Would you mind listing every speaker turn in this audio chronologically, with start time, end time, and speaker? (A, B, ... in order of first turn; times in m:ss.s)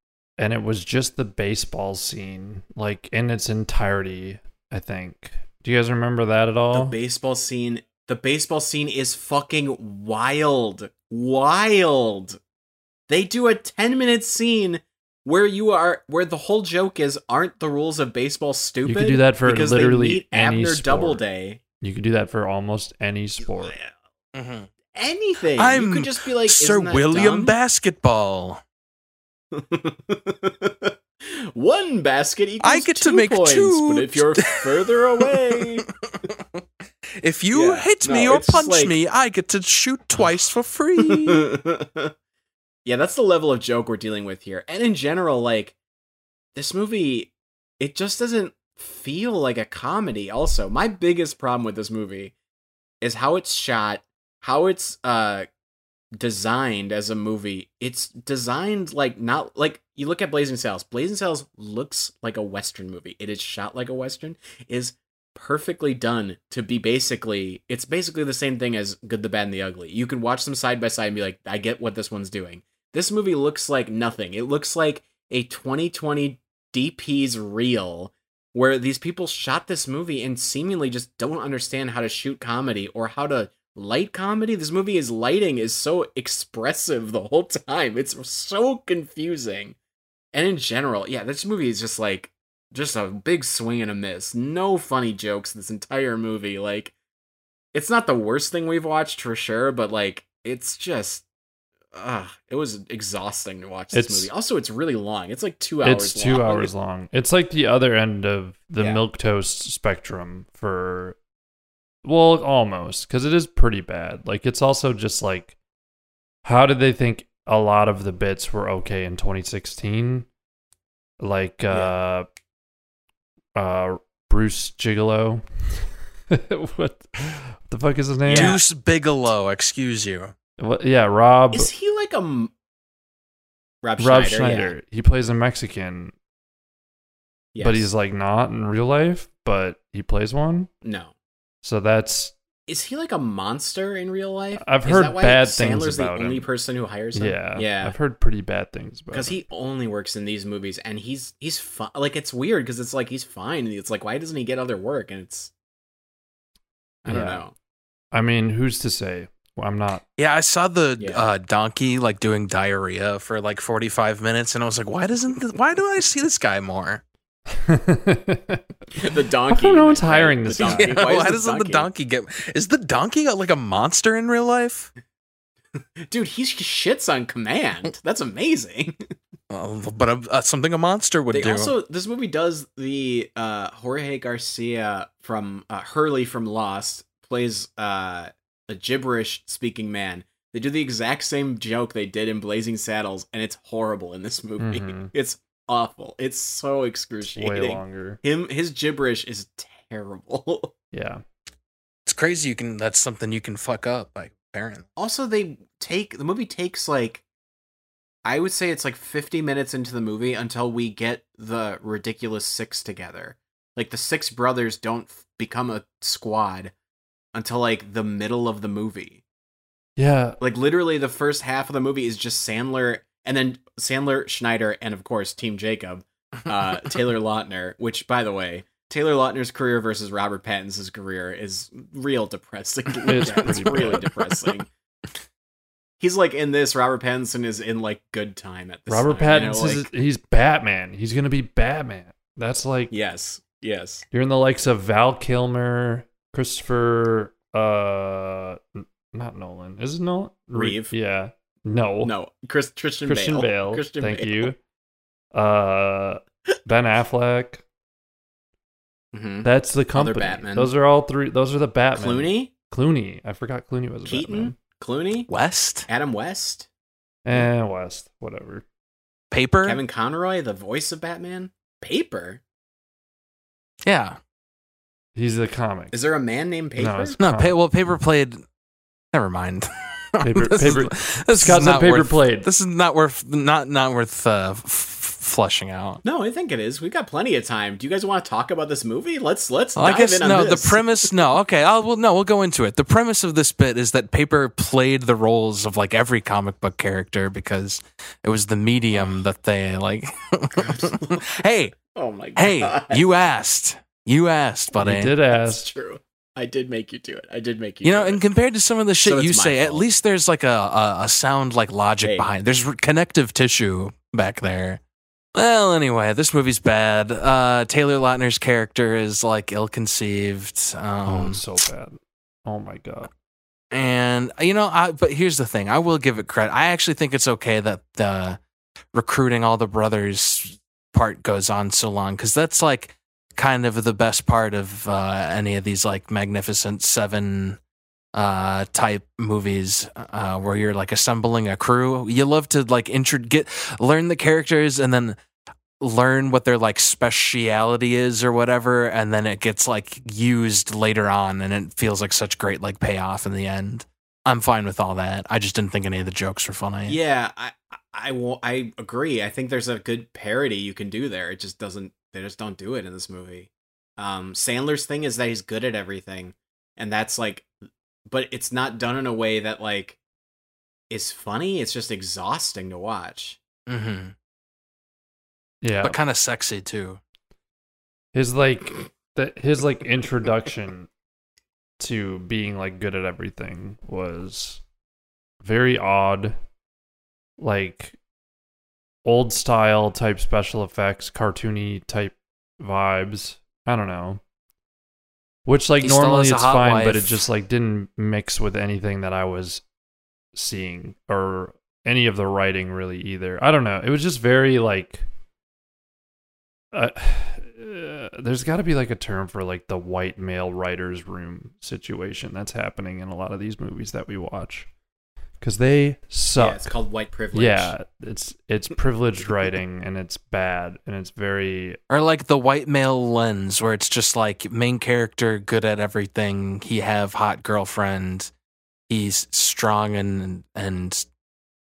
0:00.4-0:07.0 A
0:06.7-0:12.4 B
0:13.1-0:21.6 B
0:18.9-0:21.2 A
0:21.8-0:23.8 A
0:24.3-0:24.7 C
0:24.9-0:27.6 B
0:25.6-0:28.6 C
0:29.5-0:35.9 B
0:32.6-0:36.4 C
0:37.2-0:41.4 C
0:37.5-0:39.0 B
0:41.0-0:42.1 B
0:42.8-0:45.8 B
0:46.6-0:52.3 B
0:53.0-0:55.5 B
0:56.2-1:29.8 B
1:30.3-1:37.0 B
1:37.7-1:41.2 B
1:41.9-1:46.7 B
1:43.9-1:44.3 A
1:45.8-1:51.2 A
1:52.0-1:55.6 A
1:56.4-2:00.3 A
2:01.2-2:02.3 A
2:03.6-2:05.4 A
2:06.3-2:08.6 A
2:08.2-2:08.6 B
2:08.3-2:10.3 C
2:10.6-2:11.7 A
2:11.5-2:12.5 B
2:13.8-2:14.7 B
2:14.0-2:16.1 A
2:17.5-2:17.9 B
2:17.6-2:20.7 A
2:20.8-2:21.1 B
2:21.6-2:22.3 A
2:22.7-2:28.0 B
2:24.6-2:26.5 A
2:27.2-2:29.4 A
2:29.1-2:35.5 B
2:37.0-2:37.5 B
2:37.1-2:37.4 A
2:38.1-2:40.0 A
2:40.2-2:47.0 C
2:41.0-2:41.2 B
2:47.6-2:48.6 A
2:49.0-2:51.9 B
2:49.5-2:51.0 A
2:50.6-2:54.9 C
2:56.1-2:59.0 B
2:59.5-3:01.7 C
3:01.3-3:20.7 B
3:14.6-3:15.1 A
3:17.3-3:18.2 A
3:20.9-3:21.2 A
3:22.1-3:24.9 C
3:25.0-3:27.2 B
3:28.2-3:36.7 B
3:37.3-3:39.2 B
3:40.0-3:40.4 A
3:40.4-3:54.7 B
3:53.0-3:54.1 A
3:56.0-3:59.9 B
3:58.9-4:02.9 A
4:02.9-4:04.0 B
4:04.1-4:12.1 A
4:10.5-4:10.9 B
4:12.0-4:14.5 B
4:13.1-4:14.6 A
4:15.3-4:17.6 A
4:19.1-4:20.7 B
4:19.4-4:24.6 A
4:21.9-4:22.5 B
4:24.1-4:25.3 B
4:25.3-4:25.9 C
4:25.9-4:26.7 B
4:27.2-4:28.6 A
4:29.3-4:29.8 C
4:29.6-4:32.4 B
4:33.8-4:34.2 C
4:35.2-4:35.9 A
4:35.9-4:37.2 B
4:36.8-4:37.6 A
4:37.2-4:38.4 C
4:39.1-4:46.0 C
4:40.2-4:42.5 A
4:46.0-4:51.1 B
4:49.8-5:01.8 C
4:58.9-4:59.2 B
5:00.6-5:01.3 B
5:01.8-5:03.0 B
5:02.4-5:05.1 C
5:04.8-5:05.7 A
5:05.3-5:08.2 B
5:07.8-5:14.8 C
5:09.0-5:09.8 B
5:12.0-5:12.3 B
5:15.4-5:21.4 C
5:21.0-5:23.1 A
5:23.7-5:28.4 C
5:28.9-5:37.6 C
5:38.1-5:45.2 C
5:45.8-5:57.0 C
5:56.9-6:07.5 B
6:08.1-6:10.0 B
6:10.9-6:13.4 B
6:13.7-6:14.1 C
6:15.6-6:16.0 A
6:15.8-6:17.0 C
6:18.1-6:20.9 A
6:21.8-6:24.6 A
6:25.4-6:26.4 A
6:27.4-6:28.0 A
6:29.0-6:34.2 A
6:35.5-6:39.6 A
6:35.8-6:37.2 C
6:40.3-6:45.0 A
6:46.7-6:54.7 A
6:55.4-6:56.7 A
6:56.4-6:57.7 B
6:57.3-7:01.8 A
7:01.9-7:08.3 C
7:08.9-7:11.1 C